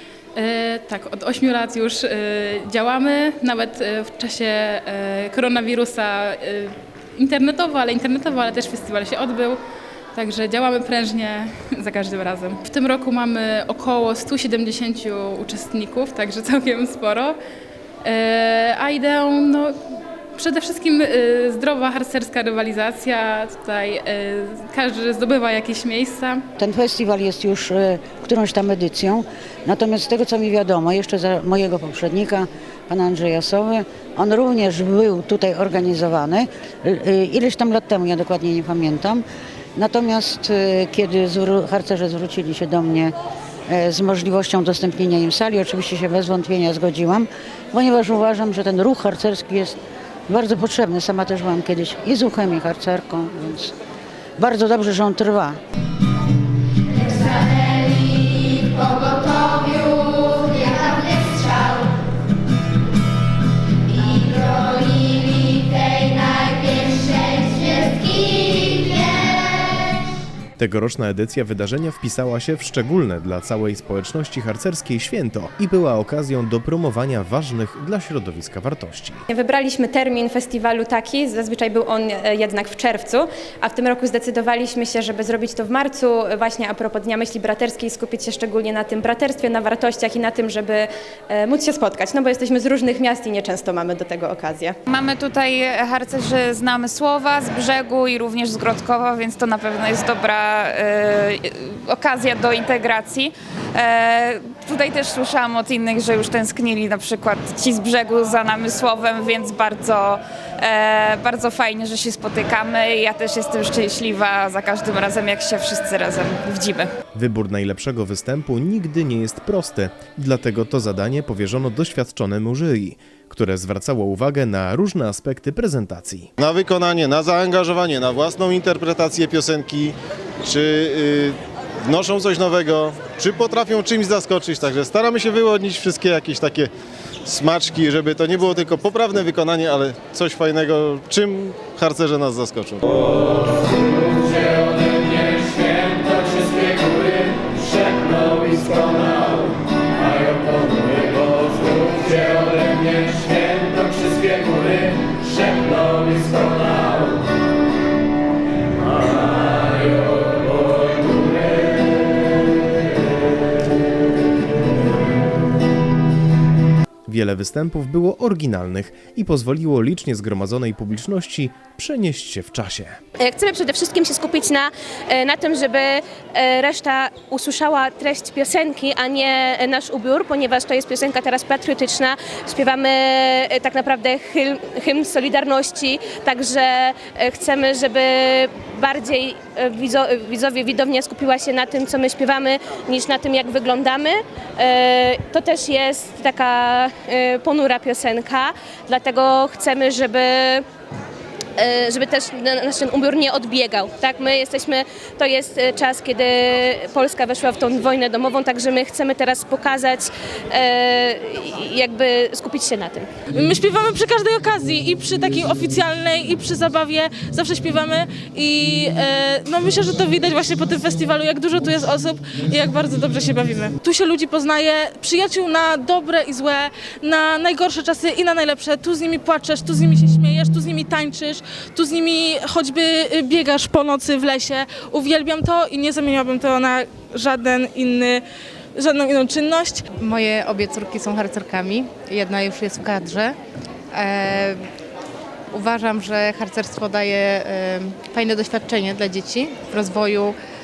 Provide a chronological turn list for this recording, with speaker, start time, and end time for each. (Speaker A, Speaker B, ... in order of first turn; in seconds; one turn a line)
Speaker A: 0.3-9.6
Speaker A: 10.1-17.4
Speaker A: 18.0-19.7
Speaker A: 20.3-26.4
Speaker B: 26.6-39.2
Speaker B: 39.8-43.1
Speaker B: 43.7-49.8
Speaker B: 50.3-53.7
Speaker B: 54.4-55.6
Speaker C: 70.6-79.2
Speaker D: 79.3-94.8
Speaker E: 94.9-116.9
Speaker C: 117.1-126.3
Speaker F: 126.4-136.7
Speaker F: 137.2-142.8
Speaker C: 167.1-173.0
Speaker G: 173.2-200.6
Speaker G: 201.6-213.1
Speaker H: 213.3-238.2
Speaker H: 238.7-239.9
Speaker I: 239.9-243.3
Speaker I: 243.9-244.6
Speaker I: 245.5-250.3